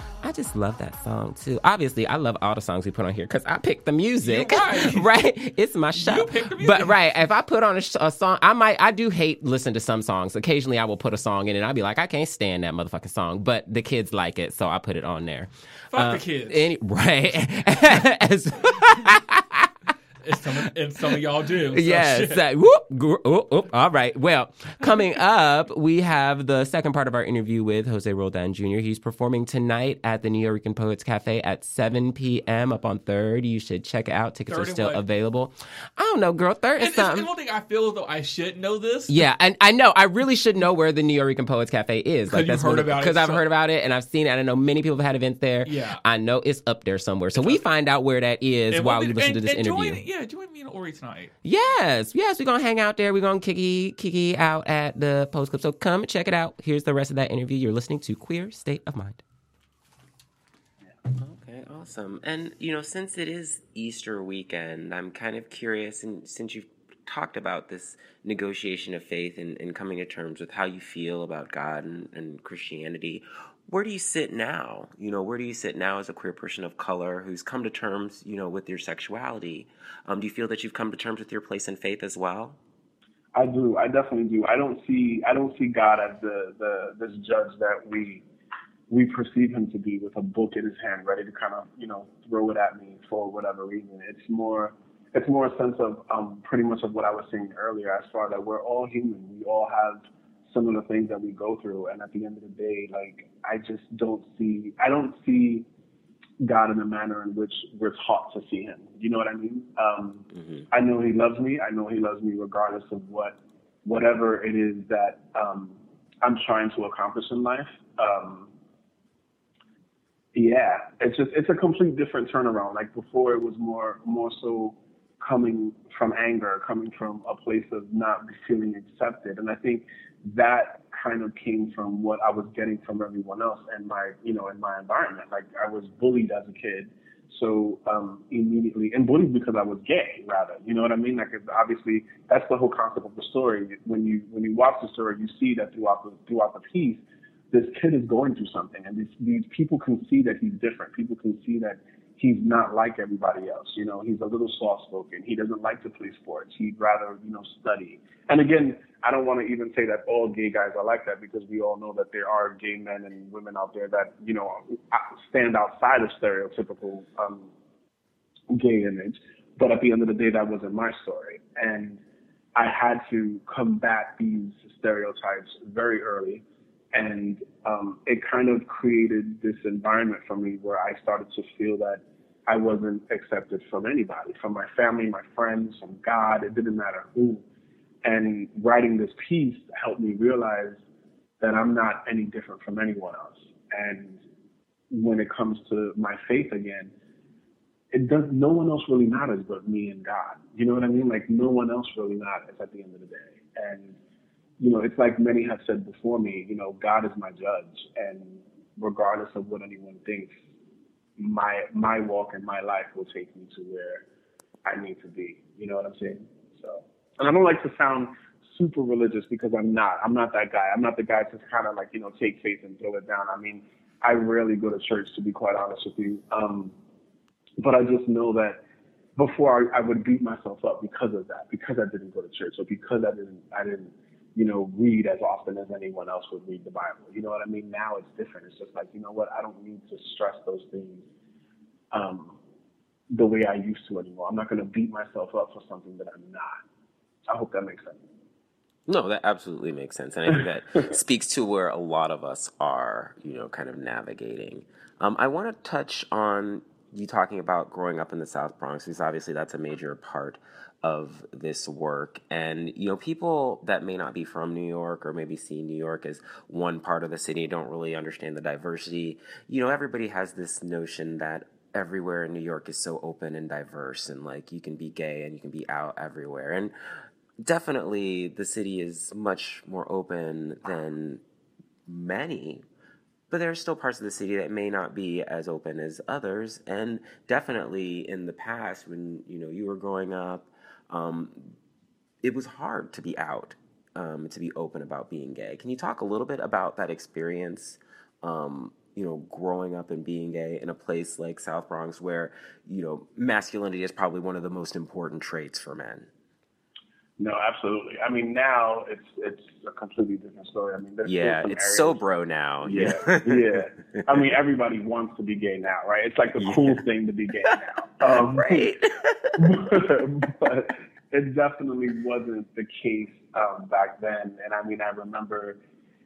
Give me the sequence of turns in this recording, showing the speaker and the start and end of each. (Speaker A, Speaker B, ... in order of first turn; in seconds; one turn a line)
Speaker A: 0.2-19.7
Speaker B: 4.2-5.1
Speaker B: 5.9-7.0
Speaker B: 15.9-16.7
Speaker B: 20.2-22.4
Speaker A: 21.7-37.3
Speaker B: 34.5-35.0
Speaker B: 36.8-39.2
Speaker A: 39.1-50.0
Speaker B: 42.3-43.4
Speaker B: 45.6-46.0
Speaker B: 47.3-47.6
Speaker B: 48.7-51.3
Speaker A: 51.4-59.2
Speaker A: 61.1-82.6
Speaker C: 83.3-88.2
Speaker C: 88.9-105.7
Speaker C: 106.4-118.5
Speaker C: 120.3-167.5
Speaker C: 168.5-172.0
Speaker C: 172.6-187.4
Speaker C: 188.0-190.8
Speaker C: 191.4-194.2
Speaker C: 194.9-196.9
Speaker C: 197.9-203.9
Speaker C: 204.6-210.3
Speaker C: 211.2-214.0
Speaker C: 214.7-226.7
Speaker C: 227.6-228.6
Speaker C: 229.2-241.0
Speaker C: 241.9-242.4
Speaker C: 243.1-246.6
Speaker C: 247.3-248.0
Speaker A: 248.9-276.7
Speaker A: 277.4-281.2
Speaker A: 281.9-282.6
Speaker A: 283.3-291.5
Speaker A: 292.2-306.1
Speaker C: 307.2-312.0
Speaker A: 311.0-313.6
Speaker C: 312.6-318.7
Speaker A: 316.4-316.8
Speaker A: 318.0-319.5
Speaker C: 319.4-325.6